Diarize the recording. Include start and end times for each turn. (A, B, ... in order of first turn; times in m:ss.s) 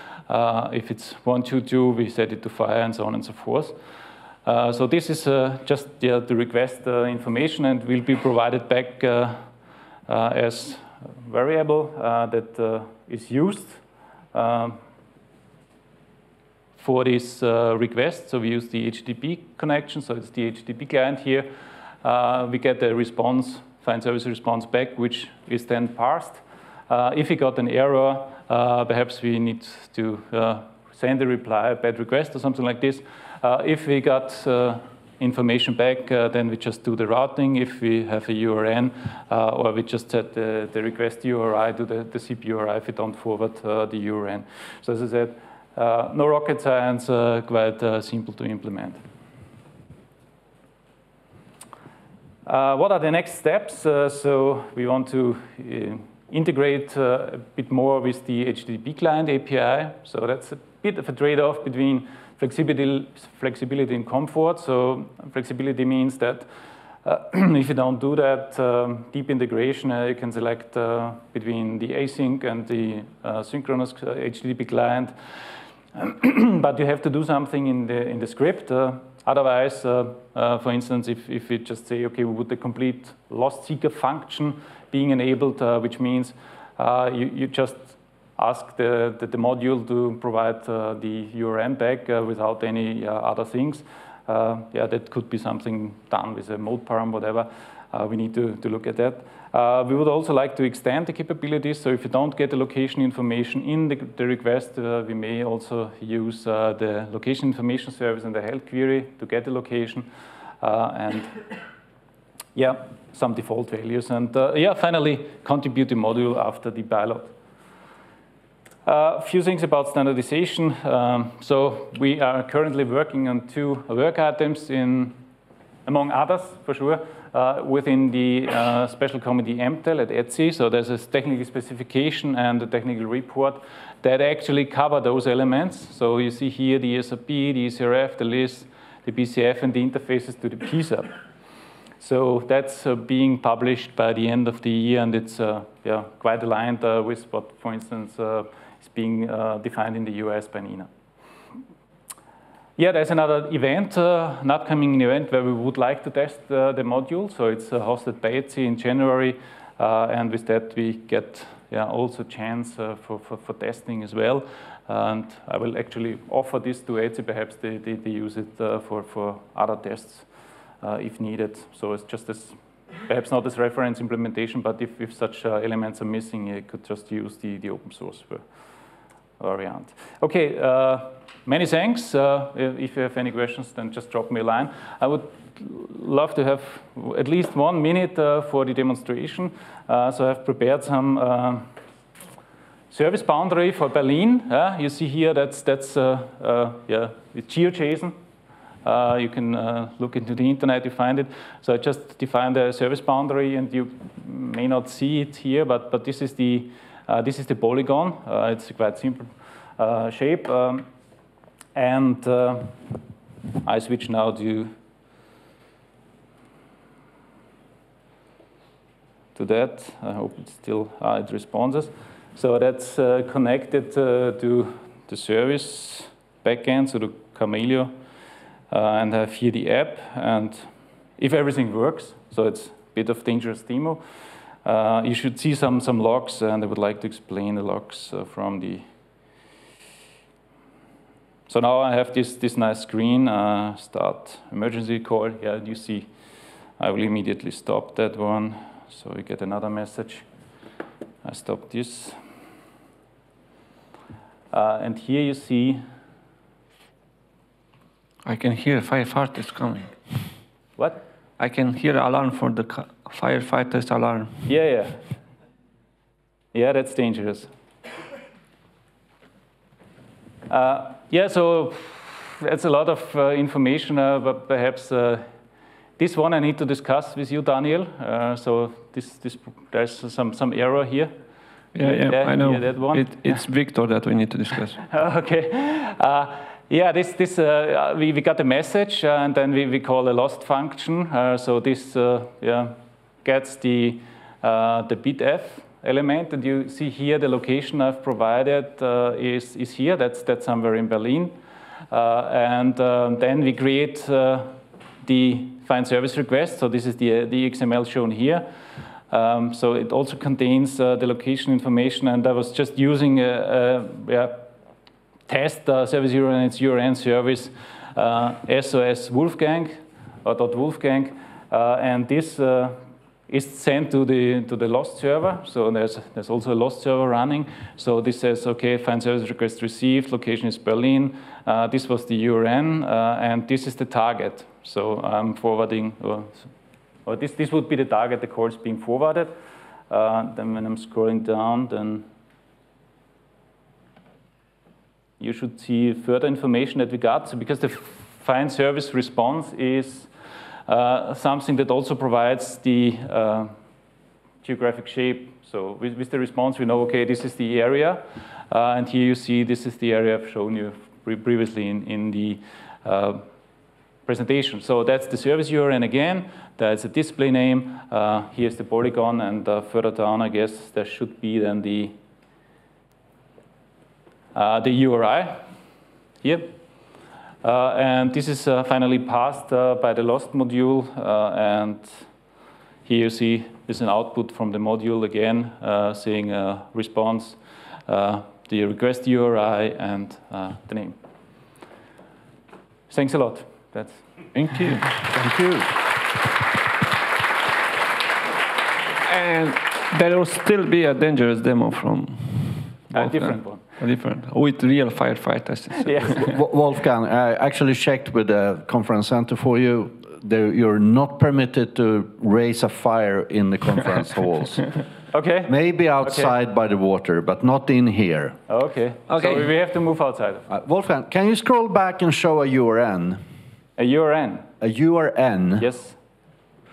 0:00.3-0:03.8 A
0:04.4-0:09.4 A
0:10.1-0:13.8 A
0:14.3-0:14.8 A
0:16.8-0:21.5 A
0:22.0-0:49.0 A
0:52.4-1:06.5 A
1:07.0-1:15.1 A
1:16.0-1:50.1 A
1:50.6-1:51.3 A
1:52.6-1:57.3 A
1:58.8-2:05.2 A
2:05.9-2:21.1 A
2:22.0-2:30.9 A
2:32.8-2:50.3 A
2:50.8-2:58.4 A
2:59.4-3:11.7 A
3:12.9-3:18.2 A
3:18.8-3:30.8 A
3:31.8-3:32.8 A
3:33.6-3:34.7 A
3:39.4-3:47.9 A
3:48.7-3:54.0 A
3:54.6-3:58.8 A
4:01.5-4:06.1 A
4:06.8-4:10.2 A
4:11.2-4:12.2 A
4:14.5-4:15.8 A
4:18.2-4:20.3 B
4:21.4-4:24.4 B
4:24.5-4:25.0 A
4:26.5-4:27.5 A
4:30.5-4:35.2 A
4:36.0-4:41.1 A
4:41.8-4:44.8 B
4:41.8-4:43.4 A
4:44.9-5:01.4 A
5:01.9-5:08.4 A
5:09.1-5:14.5 A
5:15.3-5:36.5 A
5:37.1-5:39.3 A
5:39.9-5:42.1 A
5:45.2-5:50.1 A
5:50.7-5:53.5 A
5:54.4-6:03.2 A
6:04.1-6:11.9 A
6:14.3-6:15.4 A
6:16.2-6:16.6 A
6:17.4-6:22.1 A
6:22.9-6:31.0 A
6:32.9-6:34.0 A
6:34.4-6:34.9 B
6:35.1-6:35.7 C
6:39.0-6:46.3 B
6:42.9-6:43.6 A
6:45.8-6:46.3 A
6:46.2-6:54.7 C
6:55.1-6:56.3 A
6:55.5-6:58.4 C
6:58.5-7:00.5 A
6:59.1-6:59.4 B
7:00.5-7:03.2 C
7:03.8-7:04.5 A
7:04.6-7:05.7 C
7:05.6-7:06.0 A